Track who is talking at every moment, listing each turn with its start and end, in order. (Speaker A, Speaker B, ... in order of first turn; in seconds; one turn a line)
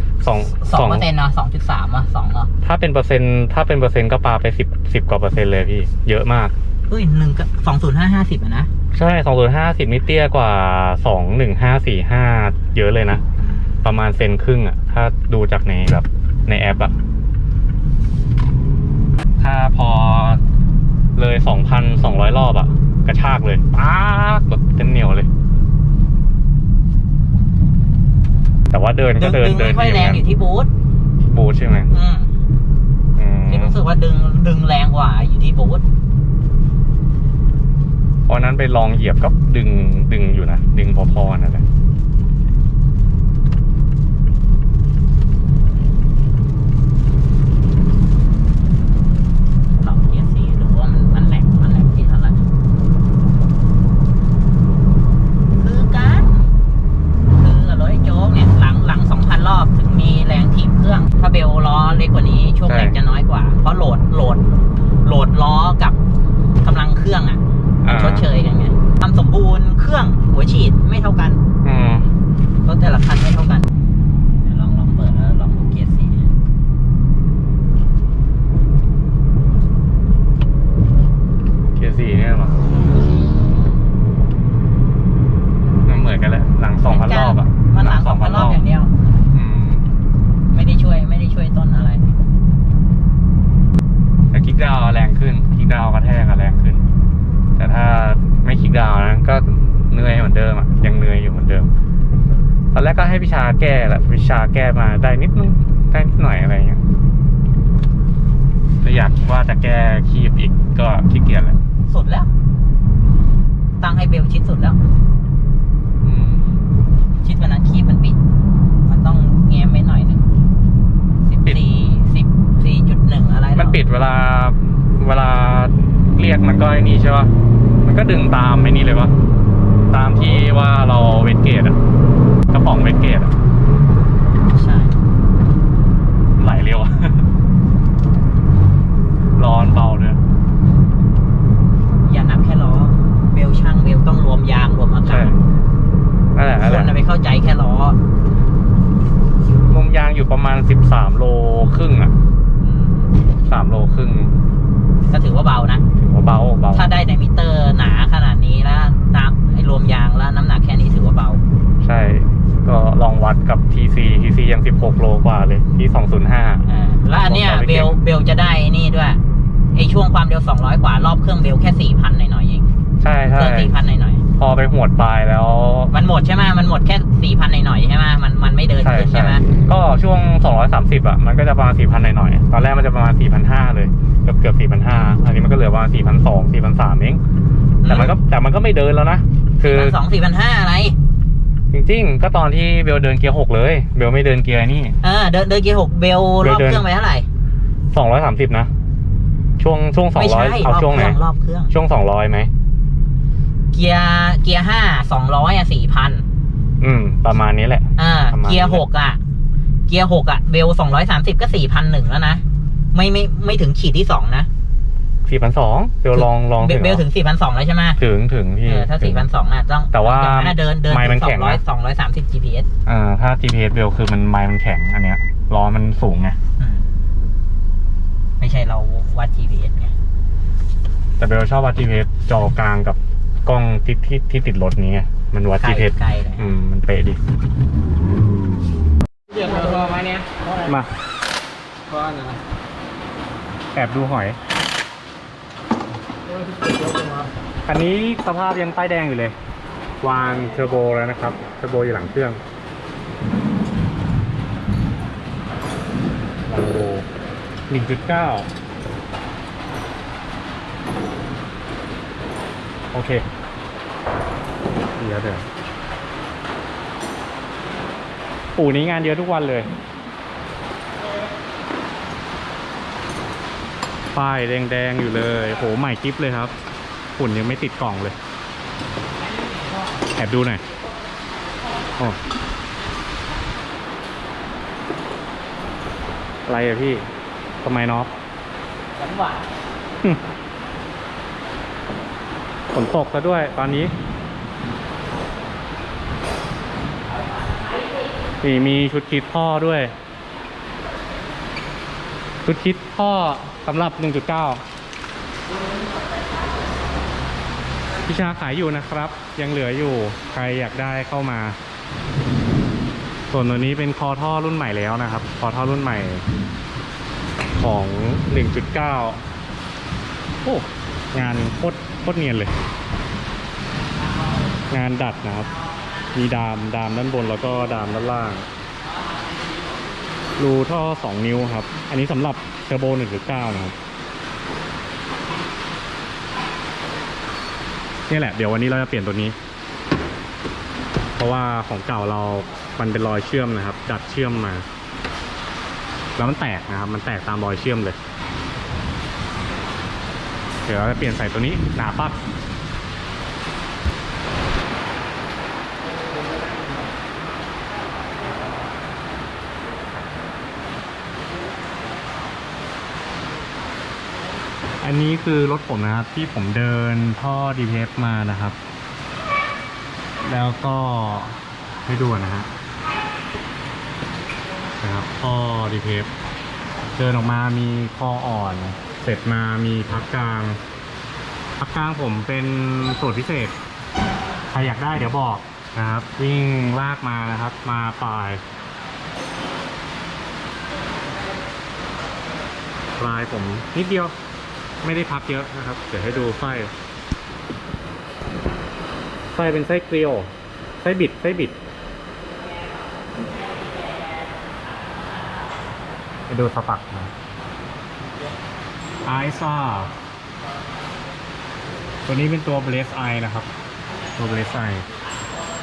Speaker A: 0.2-1.1
Speaker B: 0.6-2.5
Speaker A: 2.6-6.5
Speaker B: 6.9-8.7
Speaker A: 8.9-13.2
Speaker A: 13.8-16.9
Speaker A: 19.4-20.4
Speaker A: 21.2-25.3
Speaker A: 28.7-30.2
Speaker B: 29.2-30.7
Speaker A: 31.3-31.9
Speaker B: 31.9-32.3
Speaker A: 33.2-33.8
Speaker B: 33.5-35.8
Speaker A: 38.3-41.6
Speaker B: 49.8-52.4
Speaker B: 55.6-56.5
Speaker B: 57.4-64.4
Speaker A: 62.7-63.0
Speaker B: 65.0-66.0
Speaker B: 66.6-71.4
Speaker A: 67.8-68.3
Speaker A: 71.6-72.1
Speaker B: 72.7-73.7
Speaker B: 74.4-76.3
Speaker A: 81.8-82.6
Speaker A: 85.9-88.6
Speaker B: 86.8-89.0
Speaker A: 89.3-89.9
Speaker B: 90.5-92.1
Speaker A: 94.3-96.8
Speaker A: 97.6-101.7
Speaker A: 102.7-106.8
Speaker A: 108.8-111.6
Speaker B: 111.9-112.3
Speaker B: 113.8-114.8
Speaker A: 116.0-116.5
Speaker B: 117.2-118.2
Speaker B: 118.8-120.3
Speaker B: 121.2-123.8
Speaker A: 123.5-127.3
Speaker A: 127.8-129.1
Speaker A: 129.9-131.8
Speaker A: 132.5-133.3
Speaker B: 134.5-135.0
Speaker A: 136.4-137.3
Speaker A: 139.4-140.2
Speaker B: 142.0-145.3
Speaker A: 145.1-145.4
Speaker A: 146.3-147.0
Speaker B: 146.6-148.0
Speaker A: 149.7-152.1
Speaker B: 152.6-153.2
Speaker A: 153.5-154.3
Speaker B: 155.1-155.8
Speaker A: 156.0-156.9
Speaker B: 156.7-161.4
Speaker A: 161.8-168.0
Speaker B: 166.7-169.2
Speaker B: 169.7-172.7
Speaker A: 173.0-173.7
Speaker B: 173.4-174.2
Speaker A: 174.4-175.9
Speaker B: 175.9-179.4
Speaker A: 178.8-187.2
Speaker B: 187.8-188.1
Speaker A: 187.8-190.0
Speaker B: 189.6-191.0
Speaker A: 191.7-195.0
Speaker B: 195.0-197.3
Speaker A: 196.4-196.8
Speaker A: 197.9-198.7
Speaker A: 199.6-201.2
Speaker B: 200.1-201.7
Speaker A: 201.7-202.5
Speaker B: 203.7-206.3
Speaker A: 206.8-208.8
Speaker B: 208.0-209.2
Speaker B: 209.9-214.5
Speaker A: 215.3-217.0
Speaker B: 216.1-218.0
Speaker A: 218.0-219.3
Speaker B: 218.7-222.7
Speaker A: 219.9-221.6
Speaker A: 222.9-226.4
Speaker B: 226.6-226.9
Speaker B: 228.4-229.9
Speaker A: 231.2-237.2
Speaker B: 235.6-236.5
Speaker C: 239.3-240.0
Speaker B: 239.4-240.5
Speaker A: 240.6-240.9
Speaker C: 241.9-242.4
Speaker A: 243.7-244.4
Speaker C: 246.3-247.3
Speaker A: 247.7-249.3
Speaker A: 250.0-252.4
Speaker A: 256.5-257.1
Speaker A: 257.7-258.5
Speaker A: 262.9-263.2
Speaker A: 265.0-265.5
Speaker A: 268.6-269.7
Speaker A: 274.1-276.5
Speaker A: 277.2-278.2
Speaker A: 280.1-280.6
Speaker A: 286.5-287.1
Speaker A: 287.6-288.1
Speaker B: 289.0-289.5
Speaker A: 292.7-293.9
Speaker A: 298.4-299.9
Speaker A: 302.4-304.6
Speaker A: 308.1-311.6
Speaker A: 313.3-316.2
Speaker A: 317.6-319.2
Speaker A: 320.4-322.5
Speaker A: 324.7-325.5
Speaker A: 326.1-328.5
Speaker A: 330.4-333.8
Speaker A: 338.1-339.4
Speaker A: 341.2-344.7
Speaker A: 346.2-348.0
Speaker A: 350.7-352.2
Speaker A: 364.8-368.6
Speaker A: 370.2-372.5
Speaker A: 374.8-376.1
Speaker A: 377.0-380.6
Speaker A: 381.6-383.6
Speaker A: 384.5-388.4
Speaker A: 393.0-394.1
Speaker A: 394.8-396.7
Speaker A: 399.3-401.6
Speaker A: 406.3-407.1
Speaker A: 409.1-409.9
Speaker A: 412.1-413.5
Speaker A: 414.2-414.9